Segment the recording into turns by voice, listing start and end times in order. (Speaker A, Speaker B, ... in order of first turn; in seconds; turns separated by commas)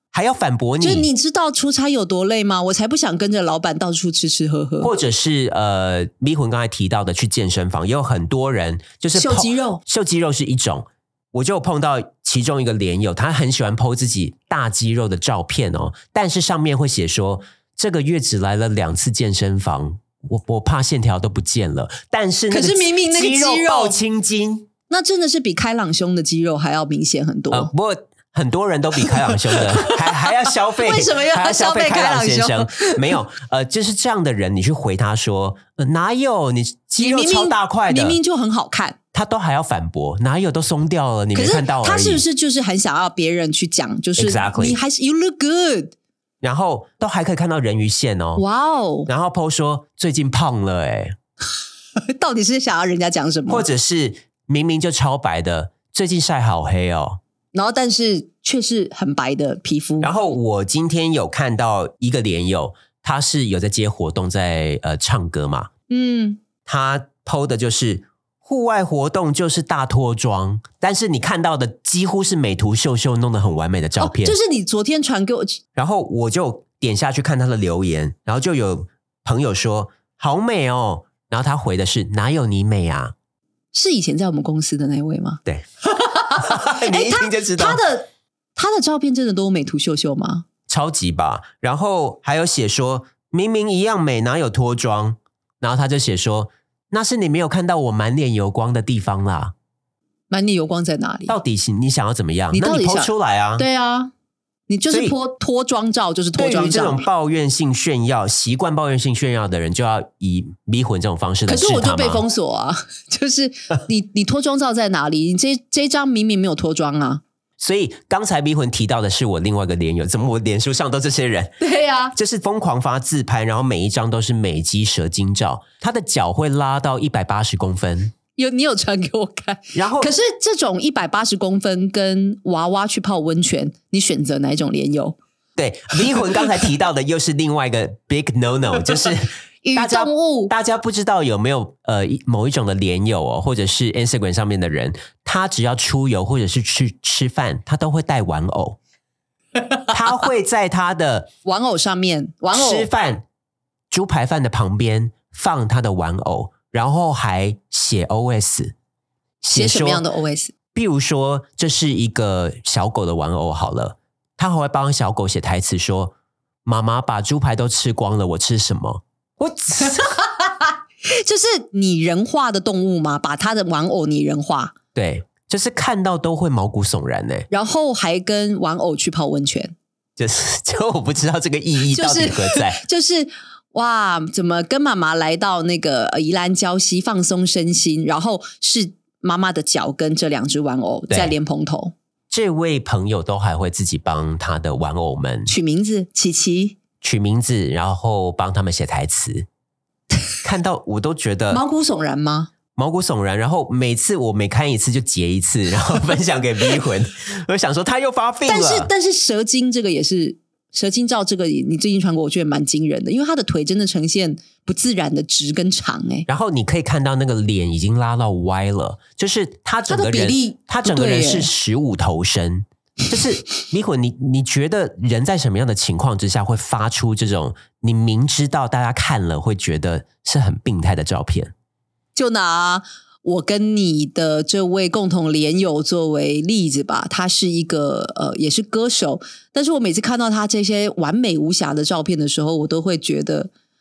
Speaker A: 0.1-1.1, Speaker B: 0.8-4.9, Speaker A: 4.8-24.7, Speaker B: 9.2-9.8, Speaker B: 22.5-24.0, Speaker B: 24.9-27.7, Speaker A: 27.5-38.2, Speaker B: 29.1-33.0, Speaker B: 37.0-39.0, Speaker A: 39.1-42.2, Speaker B: 41.3-45.9, Speaker A: 44.2-44.8, Speaker A: 46.4-48.4, Speaker B: 48.4-49.1, Speaker A: 49.0-51.1, Speaker B: 52.0-53.6, Speaker A: 53.5-57.2, Speaker B: 57.5-60.1, Speaker A: 60.0-65.7, Speaker B: 65.9-66.4, Speaker A: 66.7-74.4, Speaker B: 74.0-75.6, Speaker A: 75.7-83.1, Speaker B: 83.7-90.4, Speaker A: 86.3-87.8, Speaker A: 90.7-99.5, Speaker B: 100.3-101.3, Speaker A: 101.3-103.7, Speaker B: 102.5-104.1, Speaker B: 104.7-107.1, Speaker A: 104.9-105.2, Speaker A: 106.3-112.2, Speaker B: 111.5-117.2, Speaker A: 117.6-121.5, Speaker B: 121.6-122.1, Speaker A: 122.1-128.1, Speaker B: 128.4-135.2, Speaker A: 129.7-130.1, Speaker A: 135.6-148.8, Speaker B: 139.6-140.5, Speaker A: 149.9-151.3, Speaker B: 151.4-152.9, Speaker A: 152.5-153.2, Speaker A: 153.9-158.7, Speaker A: 159.4-160.0, Speaker B: 159.5-160.5, Speaker A: 160.7-166.1, Speaker A: 166.6-170.2, Speaker B: 170.0-174.7, Speaker A: 174.9-177.5, Speaker B: 177.5-179.7, Speaker A: 180.2-182.8, Speaker B: 181.9-191.9, Speaker A: 191.1-191.3, Speaker A: 192.3-195.5, Speaker B: 195.5-196.8, Speaker A: 197.0-199.5, Speaker A: 200.4-201.6, Speaker B: 201.5-202.5, Speaker A: 202.7-208.9, Speaker B: 208.4-216.2, Speaker A: 216.3-231.5, Speaker B: 219.9-221.5, Speaker B: 232.1-243.5